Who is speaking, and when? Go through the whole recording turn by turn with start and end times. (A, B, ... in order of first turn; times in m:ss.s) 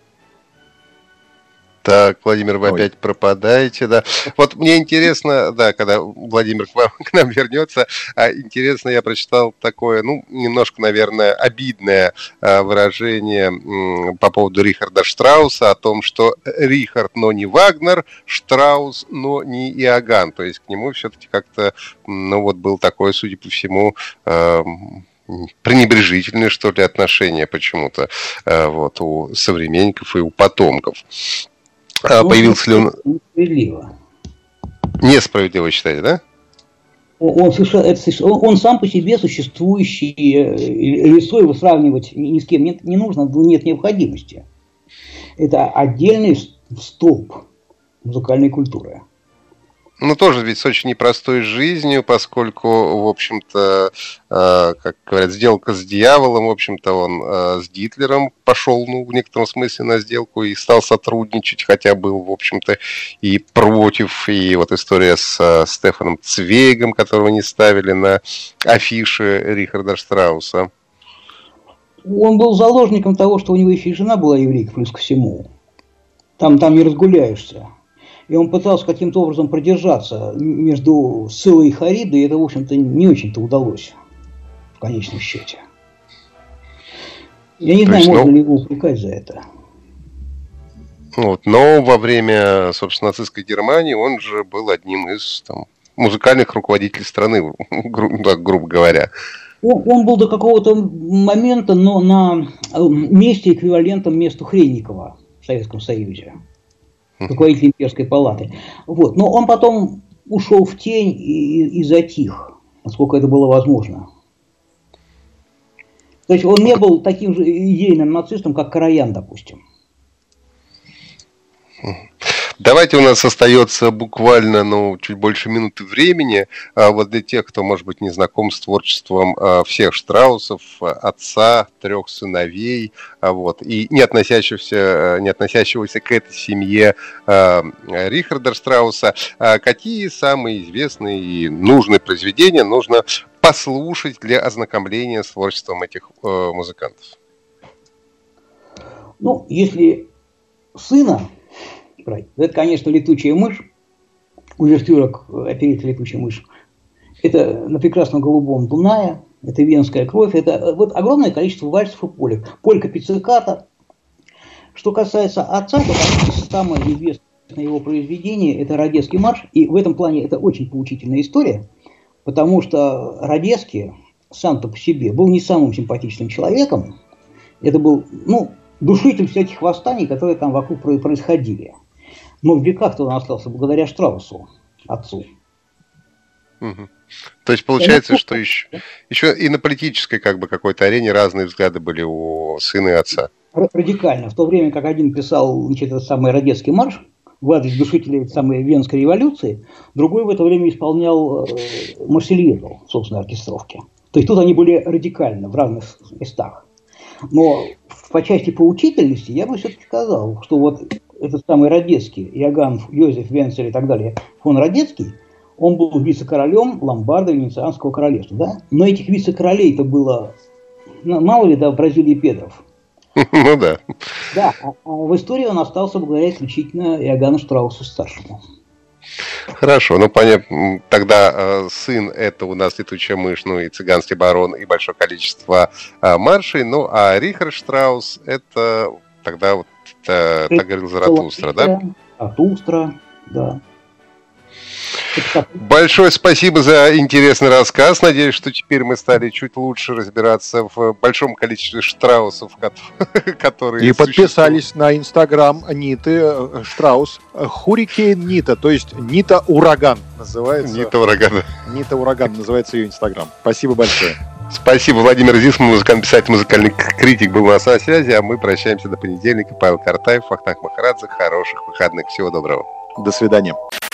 0:01.8-0:31.0 A
0:32.0-0:32.9 A
0:32.2-0:33.9 B
0:35.0-0:36.2 A
0:37.2-0:44.4 B
0:45.4-0:47.4 B
0:48.0-0:49.0 B
0:50.0-1:10.7 A
1:12.0-1:15.5 B
1:16.4-1:17.7 B
1:18.3-1:23.9 B
1:24.8-1:25.6 B
1:27.6-1:29.4 B
1:27.9-1:28.3 A
1:31.2-1:39.1 A
1:39.6-1:46.3 B
1:47.3-1:54.1 B
1:56.3-1:59.6 B
2:01.8-2:27.1 A
2:29.2-2:30.1 B
2:30.7-2:31.3 B
2:32.0-2:33.6 B
2:34.6-2:36.4 B
2:37.2-2:43.6 B
2:44.7-2:51.7 B
2:52.2-2:56.9 B
2:57.6-3:01.7 B
3:02.4-3:05.3 B
3:06.6-3:06.9 A
3:07.4-3:13.3 A
3:07.8-3:08.4 B
3:13.5-3:26.6 B
3:27.3-3:40.3 B
3:41.0-3:42.6 B
3:43.2-3:43.8 A
3:44.3-3:48.4 B
3:49.6-4:01.7 A
4:00.5-4:03.6 B
4:05.1-4:05.6 B
4:05.6-4:14.6 A
4:13.8-4:20.9 C
4:20.6-4:21.5 A
4:21.6-4:24.2 C
4:24.5-4:32.6 A
4:33.0-4:33.6 C